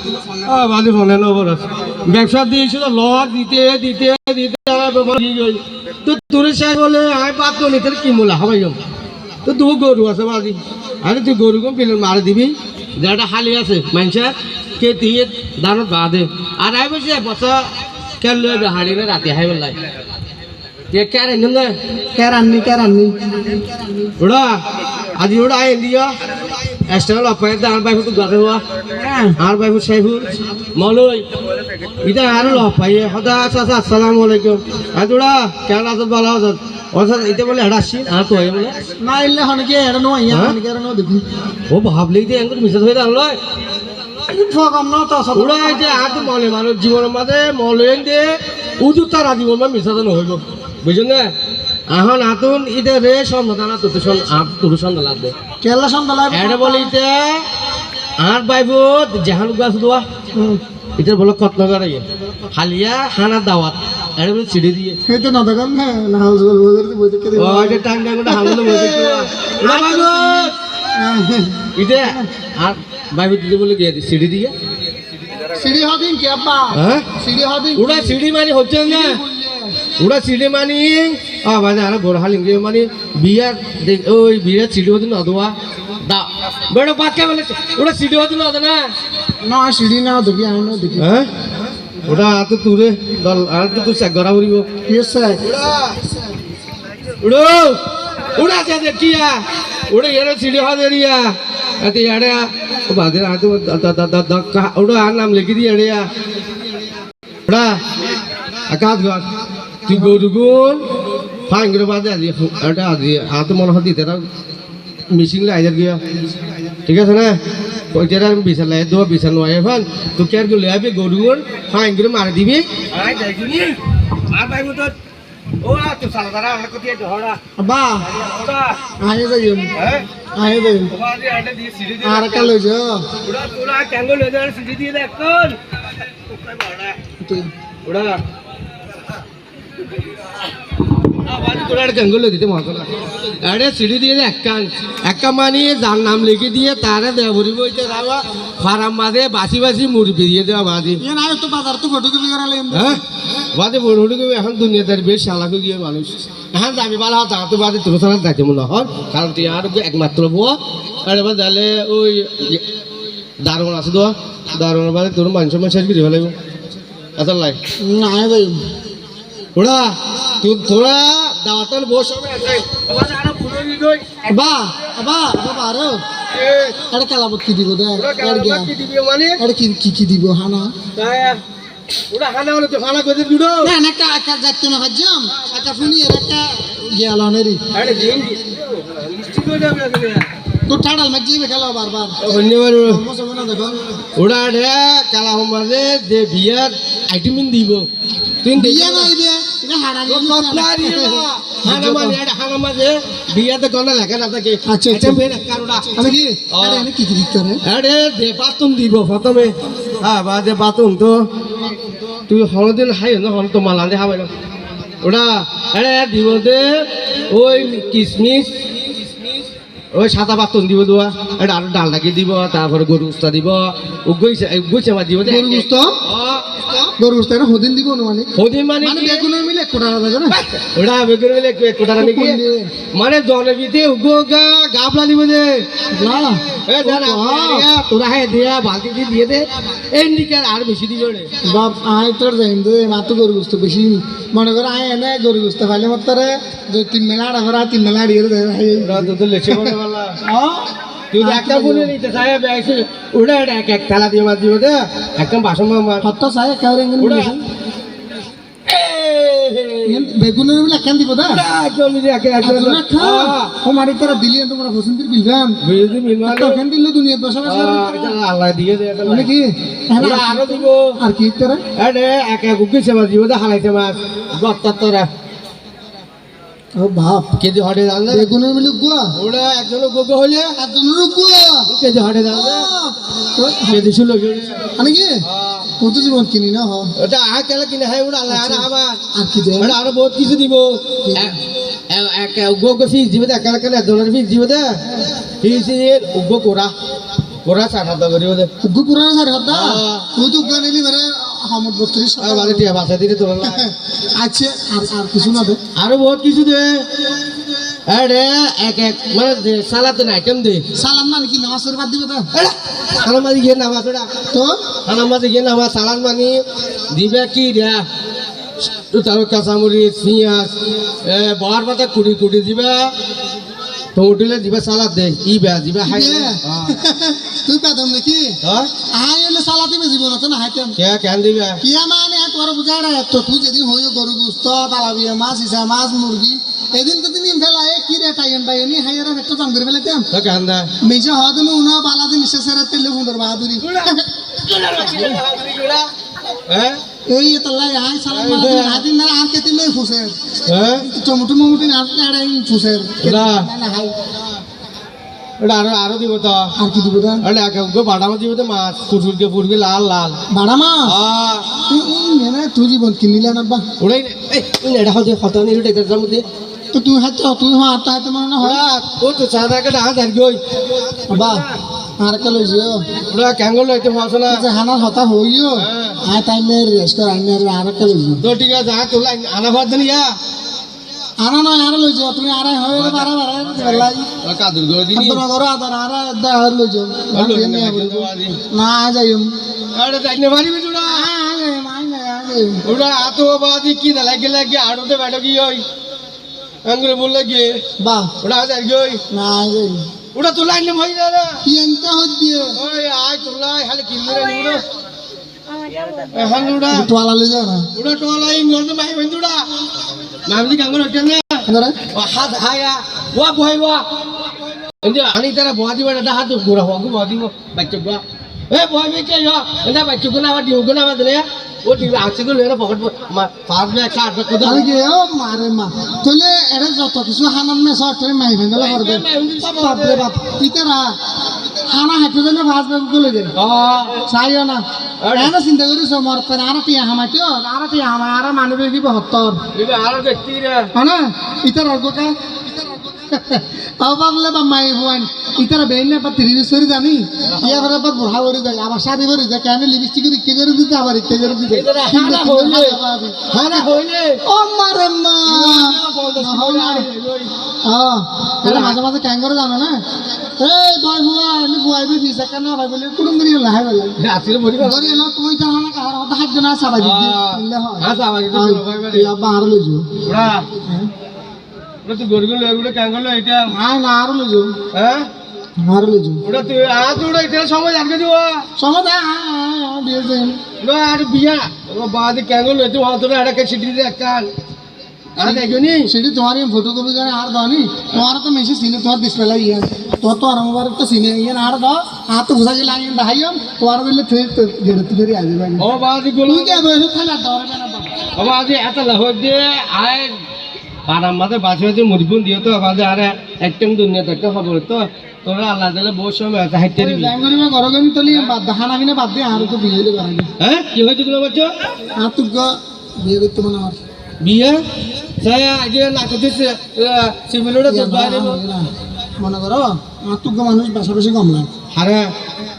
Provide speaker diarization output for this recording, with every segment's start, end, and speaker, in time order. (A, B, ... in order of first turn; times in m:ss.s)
0:00.4-0:08.8 A
0:09.4-0:17.7 A
0:18.2-0:19.8 A
0:20.9-0:21.8 A
0:22.1-0:24.1 B
0:24.2-0:26.1 A
0:26.8-0:28.6 A
0:28.9-0:29.4 B
0:29.4-0:31.2 A
0:32.0-0:38.8 A
0:32.3-0:32.6 B
0:39.0-0:41.2 B
0:40.3-0:40.6 A
0:41.7-0:43.4 A
0:44.2-0:46.3 B
0:45.3-0:51.3 A
0:51.9-0:55.3 A
0:55.6-0:56.9 B
0:56.3-0:57.4 A
0:58.2-1:00.0 A
1:00.3-1:00.6 B
1:01.0-1:05.0 A
1:05.0-1:12.3 B
1:07.4-1:10.5 A
1:11.7-1:14.5 A
1:15.5-1:18.2 B
1:16.7-1:17.1 A
1:17.7-1:19.2 A
1:18.8-1:19.7 B
1:20.0-1:28.9 A
1:29.4-1:31.1 B
1:31.0-1:31.3 A
1:32.0-1:34.7 A
1:34.9-1:35.4 B
1:35.4-1:35.9 A
1:37.2-1:46.1 A
1:47.5-1:47.8 A
1:48.7-1:49.3 A
1:49.8-1:50.8 A
1:51.5-1:54.2 A
1:55.1-1:56.0 A
1:56.8-2:04.9 A
2:05.6-2:07.4 A
2:07.6-2:08.1 B
2:08.1-2:08.8 A
2:09.0-2:09.7 B
2:09.7-2:10.0 A
2:10.3-2:10.9 B
2:10.9-2:12.5 A
2:12.0-2:13.0 B
2:13.2-2:15.6 A
2:16.3-2:17.0 A
2:17.2-2:17.5 B
2:17.8-2:18.2 A
2:21.2-2:31.0 A
2:31.0-2:33.0 B
2:32.7-2:33.0 A
2:33.5-2:42.6 A
2:43.4-2:46.3 A
2:47.2-2:47.6 A
2:47.8-2:48.6 B
2:49.6-2:54.0 A
2:54.2-2:56.0 B
2:56.3-2:56.8 A
2:56.9-2:58.7 B
2:58.0-2:59.4 A
2:59.4-3:00.7 B
3:00.9-3:01.4 A
3:02.1-3:03.7 A
3:03.6-3:07.6 B
3:07.7-3:10.3 A
3:10.7-3:13.8 B
3:12.2-3:13.0 A
3:14.2-3:17.9 A
3:18.4-3:19.1 A
3:18.5-3:22.2 B
3:20.1-3:26.8 A
3:24.6-3:25.2 B
3:25.9-3:27.6 B
3:27.6-3:31.2 A
3:32.3-3:34.3 A
3:35.0-3:38.5 A
3:39.9-3:46.4 A
3:45.2-3:46.0 B
3:46.8-3:50.4 B
3:48.3-3:49.3 A
3:50.3-3:52.4 A
3:52.0-3:52.7 B
3:52.9-3:55.6 A
3:55.9-3:57.7 B
3:56.6-4:01.3 A
4:01.4-4:11.9 B
4:08.8-4:10.2 A
4:11.1-4:16.1 A
4:16.0-4:17.4 B
4:17.0-4:17.4 A
4:18.7-4:20.0 A
4:19.8-4:21.4 B
4:21.2-4:23.5 A
4:22.4-4:25.6 B
4:25.6-4:26.6 A
4:26.2-4:28.2 B
4:27.4-4:29.3 A
4:29.0-4:31.6 B
4:30.0-4:31.0 A
4:31.8-4:35.1 A
4:36.7-4:37.3 B
4:37.4-4:38.3 A
4:38.1-4:39.1 B
4:39.1-4:40.6 A
4:40.6-4:41.7 B
4:41.7-4:42.7 A
4:42.3-4:43.9 B
4:43.7-4:45.7 A
4:44.8-4:45.2 B
4:45.8-4:46.9 B
4:47.0-4:49.0 A
4:48.3-4:49.8 B
4:49.6-4:56.7 A
4:51.0-4:51.3 B
4:57.4-4:58.5 A
4:58.6-5:02.7 B
4:59.5-5:00.1 A
5:02.2-5:03.6 A
5:03.4-5:05.6 B
5:05.8-5:06.8 A
5:07.9-5:10.6 A
5:10.7-5:12.3 B
5:12.3-5:14.1 A
5:14.3-5:14.6 B
5:14.8-5:17.8 A
5:18.7-5:20.5 A
5:21.0-5:22.9 A
5:23.9-5:26.8 A
5:25.8-5:28.4 B
5:28.4-5:28.7 A
5:28.9-5:30.8 B
5:30.8-5:31.6 A
5:31.6-5:40.1 B
5:40.1-5:40.7 A
5:40.8-5:44.1 B
5:43.6-5:46.8 A
5:47.0-5:50.2 B
5:48.1-5:48.8 A
5:50.4-5:50.9 A
5:50.7-5:53.9 B
5:53.0-5:53.5 A
5:55.4-5:56.5 A
5:56.6-5:57.2 B
5:57.2-6:00.2 A
6:00.3-6:00.9 B
6:00.8-6:01.5 A
6:01.6-6:03.6 B
6:03.8-6:06.2 A
6:06.7-6:08.6 B
6:08.4-6:11.5 A
6:11.1-6:11.4 B
6:12.0-6:12.9 B
6:13.0-6:14.4 A
6:14.3-6:18.2 B
6:15.6-6:16.0 A
6:18.2-6:20.2 A
6:21.2-6:24.1 B
6:22.7-6:25.2 A
6:24.9-6:29.3 B
6:27.1-6:28.4 A
6:29.7-6:31.1 A
6:30.8-6:32.6 B
6:32.6-6:35.6 A
6:36.6-6:37.6 A
6:37.8-6:38.1 B
6:38.2-6:39.0 A
6:39.1-6:39.9 B
6:40.1-6:41.4 A
6:41.4-6:42.6 B
6:42.6-6:44.6 A
6:46.1-6:46.9 A
6:46.7-6:47.7 B
6:47.7-6:49.4 A
6:50.2-6:53.8 A
6:51.4-6:51.8 B
6:54.7-7:04.7 A
7:04.4-7:13.3 B
7:08.5-7:10.1 A
7:13.4-7:14.0 A
7:14.0-7:19.4 B
7:15.0-7:15.3 A
7:19.5-7:20.7 A
7:20.7-7:33.6 B
7:27.3-7:27.7 A
7:31.5-7:34.2 A
7:34.2-7:36.9 B
7:35.2-7:37.3 A
7:37.6-7:44.0 B
7:38.4-7:38.8 A
7:44.0-7:45.0 A
7:44.6-7:49.9 B
7:46.8-7:49.1 A
7:50.0-7:50.4 A
7:50.6-7:50.9 B
7:51.8-7:53.5 A
7:53.5-7:54.6 B
7:54.7-7:55.1 A
7:55.6-7:56.2 B
7:56.2-7:58.4 A
7:58.6-8:00.4 B
8:00.6-8:04.3 A
8:05.2-8:05.9 A
8:05.2-8:15.6 B
8:15.6-8:16.7 A
8:16.2-8:18.0 B
8:18.1-8:20.1 A
8:20.8-8:27.1 A
8:26.8-8:30.3 B
8:30.4-8:31.6 A
8:31.9-8:33.8 B
8:34.2-8:34.6 A
8:35.2-8:38.4 A
8:37.6-8:41.5 B
8:41.7-8:42.1 A